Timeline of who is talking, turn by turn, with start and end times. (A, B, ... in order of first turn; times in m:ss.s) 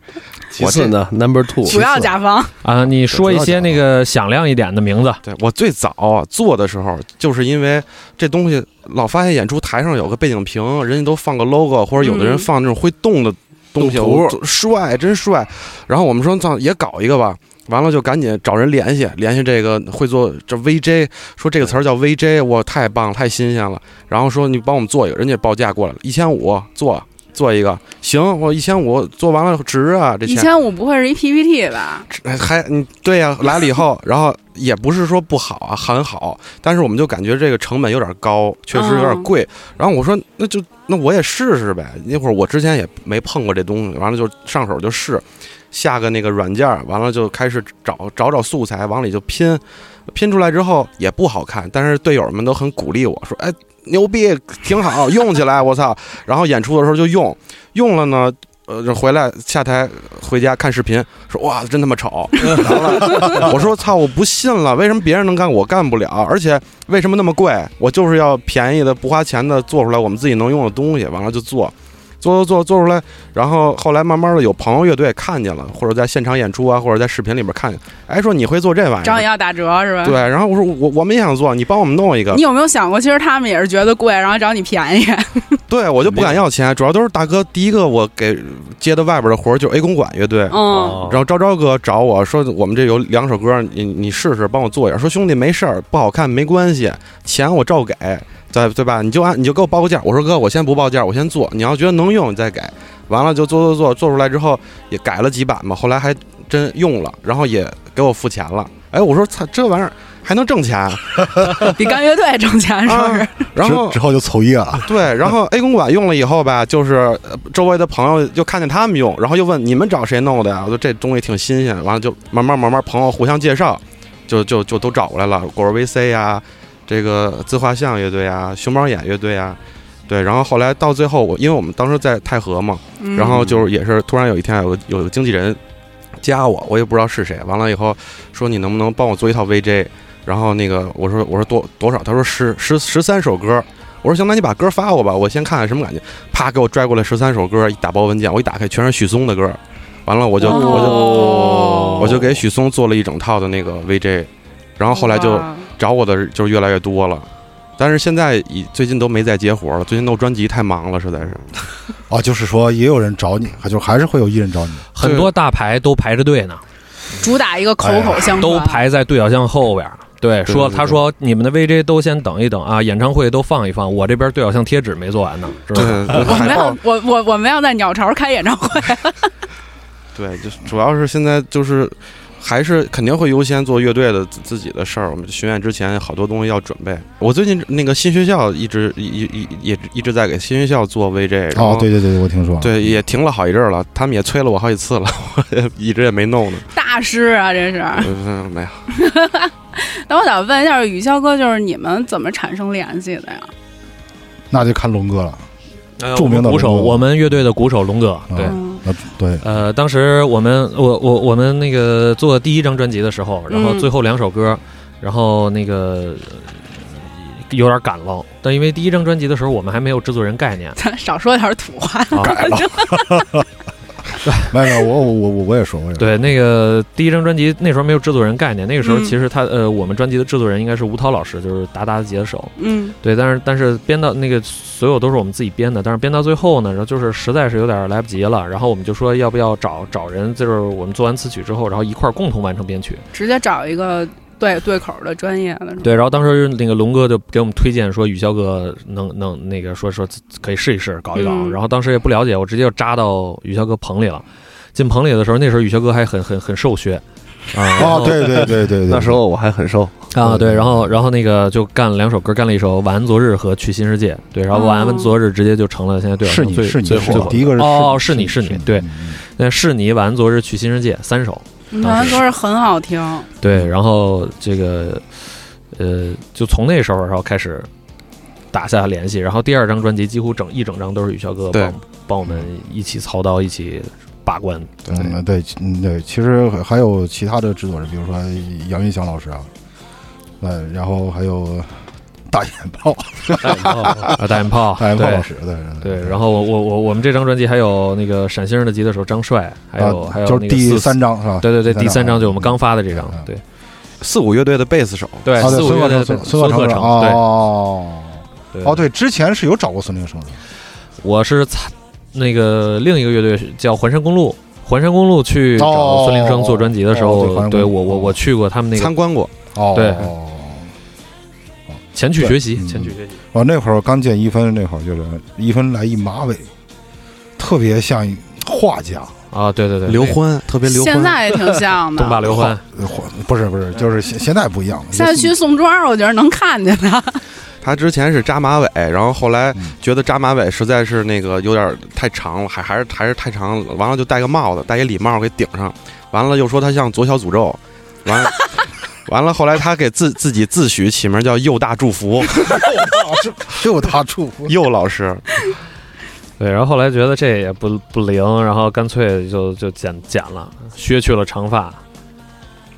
0:00.5-0:02.1 A
0:00.6-0:01.0 B
0:01.6-0:02.5 C
0:02.6-0:05.2 D
0:03.2-0:03.6 A
0:05.2-0:30.5 B
0:12.0-0:12.5 C
0:13.8-0:14.4 A
0:30.2-0:32.1 C
0:32.1-1:19.3 B
0:38.7-0:39.3 C
1:19.0-1:20.2 C
1:20.0-1:22.4 B
1:22.3-1:25.6 C
1:25.7-1:51.8 B
1:26.0-1:26.4 A
1:30.5-1:31.0 C
1:30.7-1:31.3 A
1:51.6-1:53.5 C
1:52.8-1:54.0 B
1:53.6-1:55.0 E
1:54.8-2:15.6 B
2:13.0-2:13.6 C
2:16.2-2:37.3 B
2:30.4-2:32.3 C
2:30.5-2:30.8 A
2:34.9-2:35.7 C
2:37.8-2:41.5 B
2:42.1-2:44.8 E
2:44.9-2:46.6 D
2:45.0-2:45.3 B
2:47.2-2:48.8 C
2:47.8-2:48.4 E
2:48.4-2:56.4 D
2:50.5-2:50.9 B
2:55.7-2:56.8 B
2:56.1-2:59.3 C
3:00.1-3:11.9 B
3:11.5-3:13.0 E
3:12.6-3:16.6 B
3:16.7-3:18.1 C
3:18.0-3:18.8 B
3:18.9-3:23.5 C
3:24.5-3:25.4 E
3:26.0-3:28.6 D
3:26.1-3:27.2 E
3:28.3-3:29.4 E
3:28.4-3:28.8 C
3:29.4-3:40.8 D
3:33.5-3:33.9 C
3:40.8-3:43.4 C
3:42.1-3:43.4 E
3:44.2-3:44.5 D
3:44.5-3:46.2 E
3:46.0-4:03.0 D
3:48.8-3:49.2 C
3:52.6-3:52.9 C
4:03.1-4:05.9 C
4:05.8-4:18.3 D
4:11.1-4:11.6 C
4:17.7-4:19.2 E
4:18.2-4:19.9 A
4:20.1-4:32.2 D
4:20.2-4:21.0 E
4:24.5-4:25.1 C
4:26.2-4:29.2 E
4:26.8-4:27.6 A
4:31.7-4:33.3 C
4:33.4-4:35.0 D
4:35.7-4:37.7 D
4:38.5-4:44.7 D
4:44.8-4:45.1 B
4:44.9-4:49.5 E
4:50.4-4:56.2 E
4:53.4-4:54.1 A
4:54.1-4:55.3 D
4:55.8-5:03.4 D
4:59.8-5:03.3 E
5:04.0-5:05.6 B
5:05.2-5:07.2 D
5:05.4-5:10.4 E
5:08.5-5:08.8 D
5:11.0-5:18.9 D
5:15.6-5:18.2 E
5:18.7-5:19.3 B
5:19.5-5:20.7 E
5:19.7-5:20.1 D
5:21.7-5:26.5 E
5:21.9-5:23.2 D
5:27.4-5:29.1 E
5:29.3-5:30.2 D
5:29.8-5:31.2 B
5:30.6-5:32.5 C
5:32.0-5:32.6 D
5:32.3-5:35.3 E
5:34.9-5:37.2 C
5:37.6-5:48.5 B
5:49.0-5:52.8 B
5:52.5-5:54.5 E
5:54.4-5:55.2 B
5:56.4-6:01.8 D